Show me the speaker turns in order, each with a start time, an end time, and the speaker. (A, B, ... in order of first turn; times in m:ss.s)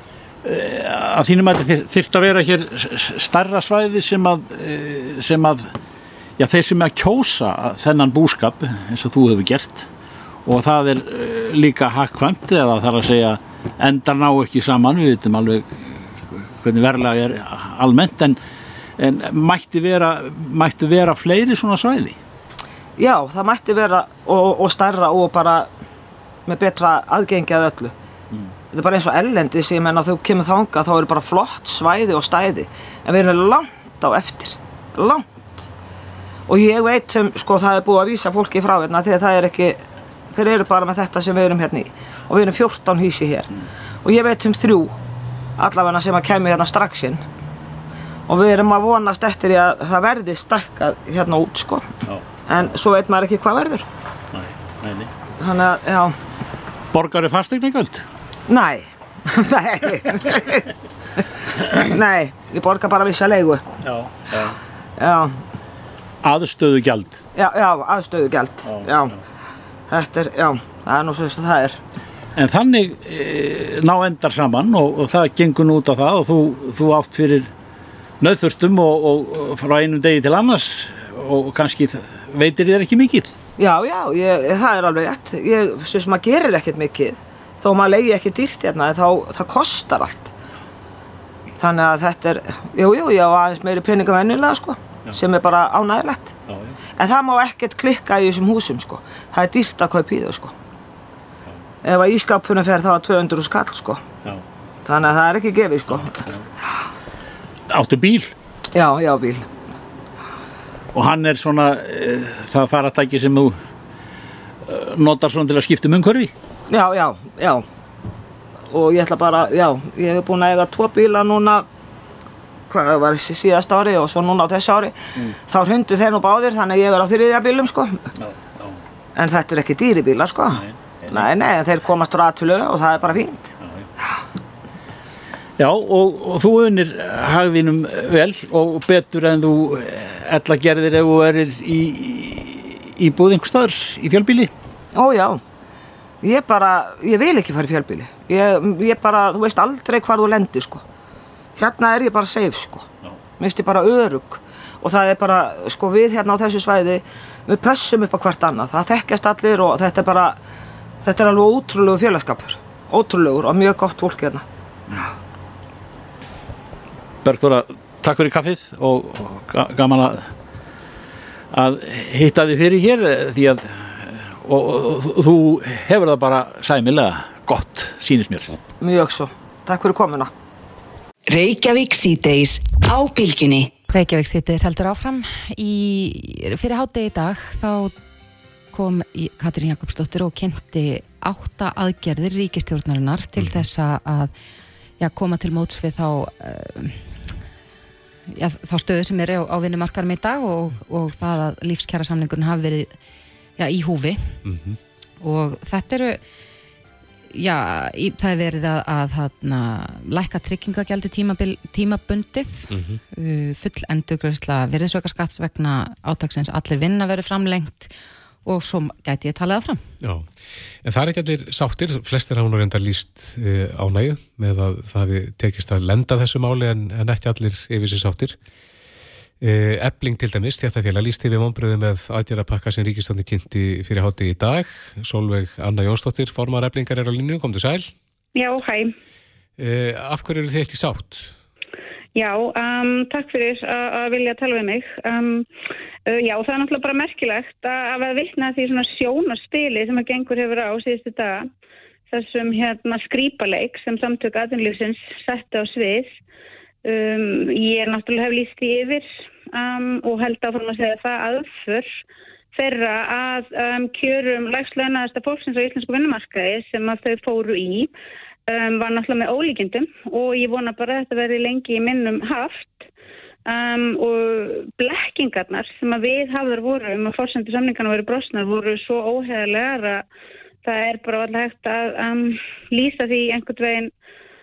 0:00.4-0:05.7 A
0:06.4-0:09.9 A
0:10.4-0:18.4 A
0:19.0-0:22.2 A
0:23.0-0:25.7 B
0:26.4-0:27.9 B
0:28.7-0:35.7 B
0:36.5-0:43.5 B
0:44.0-0:45.0 B
0:45.6-0:47.2 B
0:48.3-0:51.9 B
0:52.5-0:53.9 B
0:54.3-0:55.1 A
0:55.4-0:56.2 B
0:56.9-0:58.0 A
0:58.5-1:00.6 B
1:01.8-1:03.6 B
1:03.8-1:04.6 A
1:05.0-1:05.4 B
1:06.2-1:07.2 A
1:07.3-1:09.1 B
1:08.7-1:09.1 A
1:09.9-1:11.8 B
1:12.4-1:17.5 A
1:18.2-1:23.3 A
1:23.6-1:30.3 B
1:31.6-1:36.3 B
1:36.5-1:36.8 A
1:37.0-1:40.5 B
1:41.8-1:44.0 B
1:44.8-1:46.2 B
1:45.9-1:46.4 A
1:47.7-1:48.3 A
1:48.7-1:49.5 B
1:50.9-1:53.6 A
1:54.6-1:56.3 A
1:56.7-1:57.6 B
1:58.7-2:01.6 B
2:02.7-2:08.0 B
2:08.2-2:08.8 A
2:09.2-2:13.5 B
2:10.5-2:11.3 A
2:13.6-2:13.9 A
2:15.6-2:24.5 A
2:24.9-2:25.4 B
2:26.2-2:30.8 B
2:31.6-2:32.9 B
2:33.4-2:40.4 B
2:41.0-2:44.4 B
2:47.2-2:50.3 A
2:51.5-2:58.5 A
2:58.8-3:00.3 B
3:01.3-3:03.7 C
3:03.9-3:07.9 D
3:08.7-3:14.3 D
3:13.4-3:13.6 E
3:15.0-3:17.3 D
3:18.3-3:23.0 D
3:23.6-3:24.4 D
3:24.4-3:24.8 E
3:25.2-3:26.2 D
3:27.3-3:37.9 D
3:32.7-3:33.0 E
3:38.4-3:39.8 D
3:40.0-3:40.3 E
3:40.8-3:48.4 E
3:49.4-3:57.9 E
3:58.3-3:58.9 F
3:59.6-4:01.3 E
4:02.2-4:05.5 F
4:06.1-4:11.5 F
4:12.1-4:16.2 F
4:16.8-4:22.0 F
4:22.5-4:27.9 F
4:28.5-4:32.9 F
4:33.5-4:40.0 F
4:40.6-4:43.9 F